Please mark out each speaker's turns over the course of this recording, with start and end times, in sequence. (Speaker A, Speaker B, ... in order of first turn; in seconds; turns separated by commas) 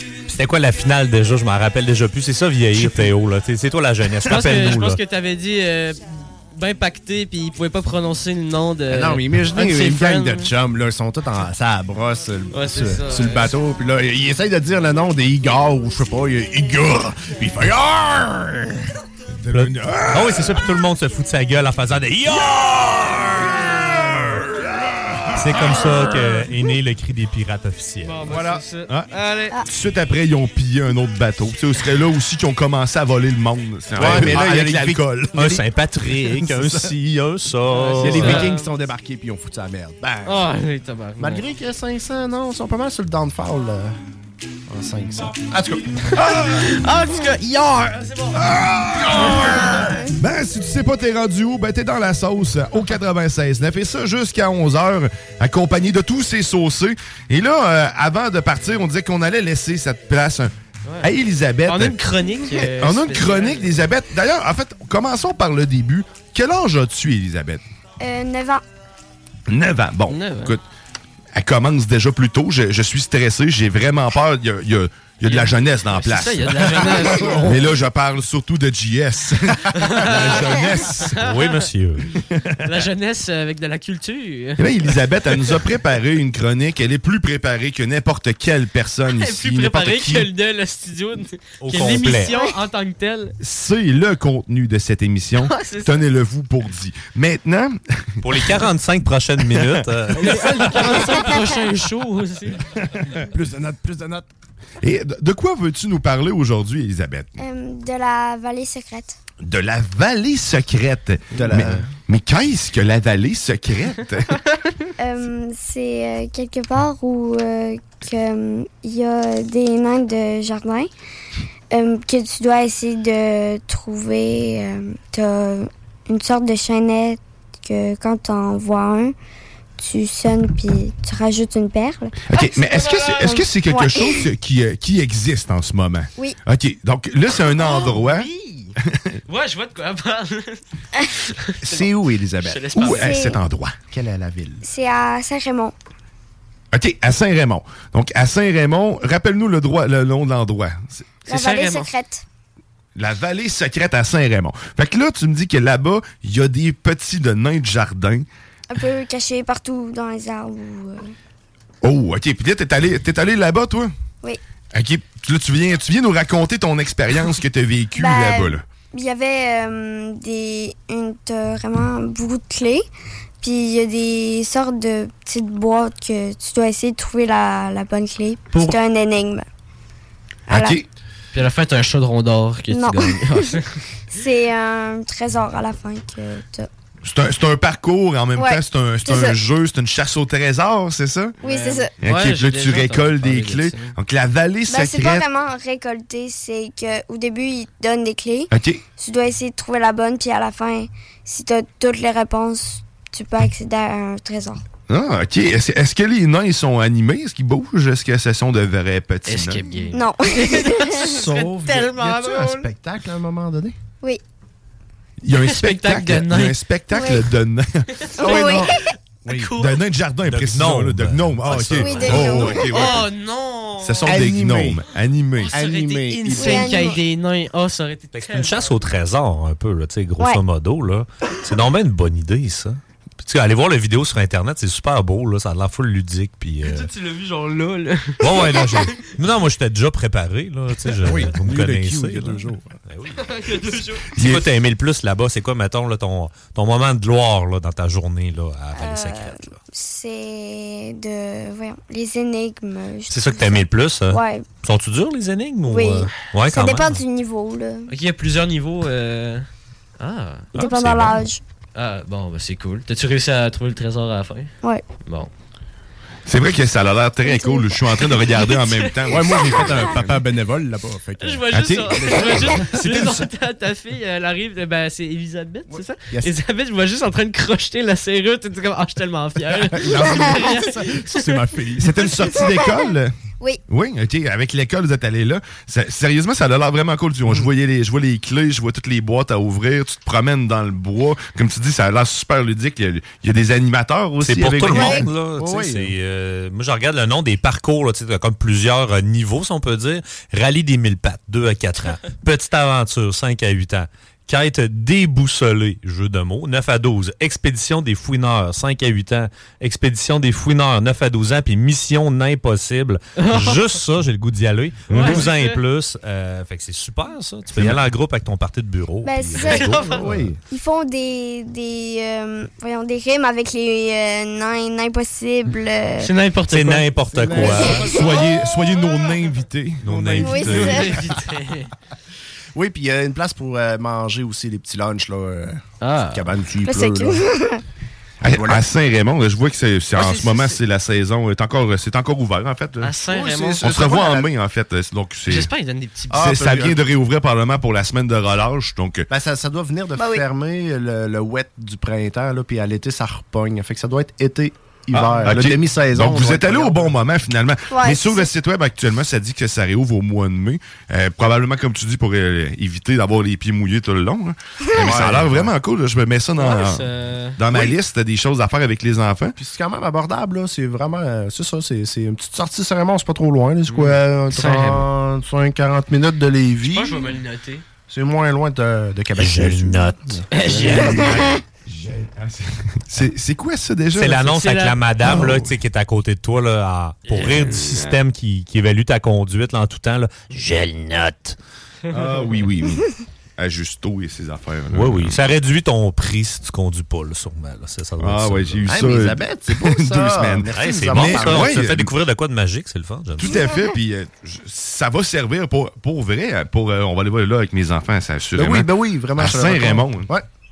Speaker A: 0.3-5.0, Speaker B: 2.8-3.0, Speaker C: 4.2-10.5, Speaker B: 8.9-18.9, Speaker C: 12.5-13.5, Speaker D: 19.4-20.6, Speaker A: 19.5-23.6, Speaker D: 23.6-24.7, Speaker A: 25.3-28.3, Speaker C: 28.0-29.5, Speaker D: 28.3-29.1, Speaker D: 29.6-35.5, Speaker B: 33.9-36.7, Speaker A: 35.3-38.5, Speaker C: 37.7-38.7, Speaker B: 38.0-40.4, Speaker C: 40.2-41.4, Speaker B: 41.2-44.0, Speaker B: 44.7-45.9, Speaker C: 46.1-48.5, Speaker D: 46.1-46.8, Speaker D: 48.3-62.0, Speaker C: 49.1-49.6, Speaker C: 60.8-61.1, Speaker C: 61.7-63.9, Speaker D: 62.6-67.6, Speaker E: 68.0-68.6, Speaker D: 69.5-70.6, Speaker C: 70.1-70.6, Speaker D: 71.3-81.2, Speaker C: 75.2-77.6, Speaker B: 76.8-77.6, Speaker C: 79.8-81.6, Speaker A: 81.1-82.1, Speaker D: 82.3-82.8, Speaker C: 82.6-84.9, Speaker D: 84.6-90.3, Speaker C: 89.1-93.3, Speaker A: 91.6-92.3, Speaker D: 93.4-98.3, Speaker C: 95.4-96.1, Speaker A: 98.2-100.6, Speaker C: 100.2-102.6, Speaker B: 100.2-101.0, Speaker B: 103.3-104.2, Speaker D: 104.8-107.3, Speaker E: 107.4-109.2, Speaker D: 109.4-114.4, Speaker B: 111.3-111.8, Speaker E: 115.0-120.9, Speaker E: 121.7-129.1, Speaker E: 129.8-132.4, Speaker D: 132.3-138.3, Speaker C: 132.6-133.4, Speaker E: 133.2-134.3, Speaker C: 137.6-138.7, Speaker D: 138.8-139.2, Speaker C: 139.3-140.6, Speaker C: 141.3-141.9, Speaker B: 141.6-142.8, Speaker C: 142.4-143.2, Speaker D: 142.7-143.7, Speaker E: 142.9-143.4, Speaker B: 143.9-144.6, Speaker E: 144.6-145.7, Speaker D: 146.7-151.0, Speaker C: 151.3-151.9, Speaker E: 151.3-152.2, Speaker D: 152.9-158.3, Speaker E: 158.7-161.1, Speaker D: 161.8-163.9, Speaker D: 164.7-168.6, Speaker E: 167.9-172.8, Speaker E: 173.4-179.4, Speaker E: 180.5-180.8, Speaker D: 180.5-180.8, Speaker C: 181.3-183.8, Speaker E: 182.7-183.6, Speaker E: 184.1-186.7, Speaker D: 187.0-191.4, Speaker E: 188.3-189.4, Speaker E: 191.4-191.9, Speaker C: 191.4-193.9, Speaker D: 192.0-195.3, Speaker E: 194.7-204.6, Speaker D: 198.5-198.8, Speaker D: 204.9-209.7, Speaker C: 209.2-212.7, Speaker E: 209.9-211.2, Speaker B: 211.0-213.8, Speaker D: 215.2-217.9, Speaker C: 215.3-216.6, Speaker E: 216.9-217.3, Speaker C: 218.1-218.7, Speaker E: 218.2-218.8, Speaker B: 218.2-218.7, Speaker B: 219.2-219.5, Speaker C: 219.3-219.8, Speaker D: 219.5-223.1, Speaker A: 220.2-222.5, Speaker E: 221.8-223.0, Speaker C: 222.0-224.2, Speaker D: 223.8-225.5, Speaker B: 224.1-224.8, Speaker C: 225.4-228.8, Speaker B: 225.5-226.9, Speaker E: 226.3-227.0, Speaker A: 228.1-236.9, Speaker C: 236.6-239.0, Speaker A: 238.2-243.2, Speaker B: 241.0-242.8, Speaker C: 243.2-244.1, Speaker A: 244.1-249.6, Speaker D: 244.2-244.4, Speaker E: 248.7-254.5, Speaker A: 253.1-257.0, Speaker E: 255.6-257.9, Speaker C: 257.9-259.4, Speaker C: 260.0-260.6, Speaker E: 260.5-261.4, Speaker A: 260.6-261.2, Speaker C: 261.7-264.5, Speaker D: 266.2-270.1, Speaker E: 267.2-267.8, Speaker C: 268.1-269.1, Speaker B: 269.1-273.2, Speaker C: 271.2-281.4, Speaker D: 271.5-273.1, Speaker B: 275.7-276.3, Speaker B: 279.5-282.1, Speaker D: 281.8-283.1, Speaker E: 282.3-283.6, Speaker D: 283.7-295.1, Speaker A: 294.2-320.0, Speaker E: 294.7-295.1, Speaker B: 294.9-295.9, Speaker C: 313.2-313.7, Speaker D: 314.9-315.2, Speaker C: 314.9-315.6, Speaker E: 319.0-319.9, Speaker C: 319.4-320.1, Speaker B: 319.8-320.4, Speaker E: 320.5-326.1, Speaker C: 326.0-326.9, Speaker A: 326.5-327.8, Speaker B: 327.1-328.0, Speaker E: 327.4-328.2, Speaker D: 327.7-330.7, Speaker A: 329.8-330.8, Speaker B: 330.0-331.1, Speaker E: 330.2-330.9, Speaker C: 330.5-331.7, Speaker B: 332.5-337.2, Speaker C: 335.8-336.3, Speaker E: 336.6-337.6, Speaker D: 338.2-342.9, Speaker B: 338.2-338.6, Speaker C: 339.9-340.6, Speaker C: 342.8-343.6, Speaker B: 343.1-344.3, Speaker D: 343.6-345.5, Speaker C: 345.3-346.4, Speaker D: 346.1-349.1, Speaker B: 346.1-346.8, Speaker B: 349.1-356.9, Speaker E: 350.0-350.2, Speaker D: 354.9-366.9, Speaker E: 357.7-358.3, Speaker B: 364.8-365.5, Speaker C: 366.4-367.4, Speaker D: 367.4-369.4, Speaker B: 369.4-377.2, Speaker C: 373.7-374.9, Speaker C: 376.6-377.6, Speaker B: 377.9-381.4, Speaker A: 379.1-380.2, Speaker C: 380.3-381.2, Speaker D: 381.6-384.2, Speaker A: 383.9-391.4, Speaker C: 384.2-384.8, Speaker D: 385.0-385.6, Speaker C: 387.1-387.9, Speaker D: 391.9-392.9, Speaker D: 393.4-395.2, Speaker A: 394.7-398.7, Speaker D: 398.0-401.9, Speaker B: 398.7-401.6, Speaker A: 400.5-403.3, Speaker D: 403.2-410.1, Speaker E: 403.2-403.7, Speaker B: 408.4-410.2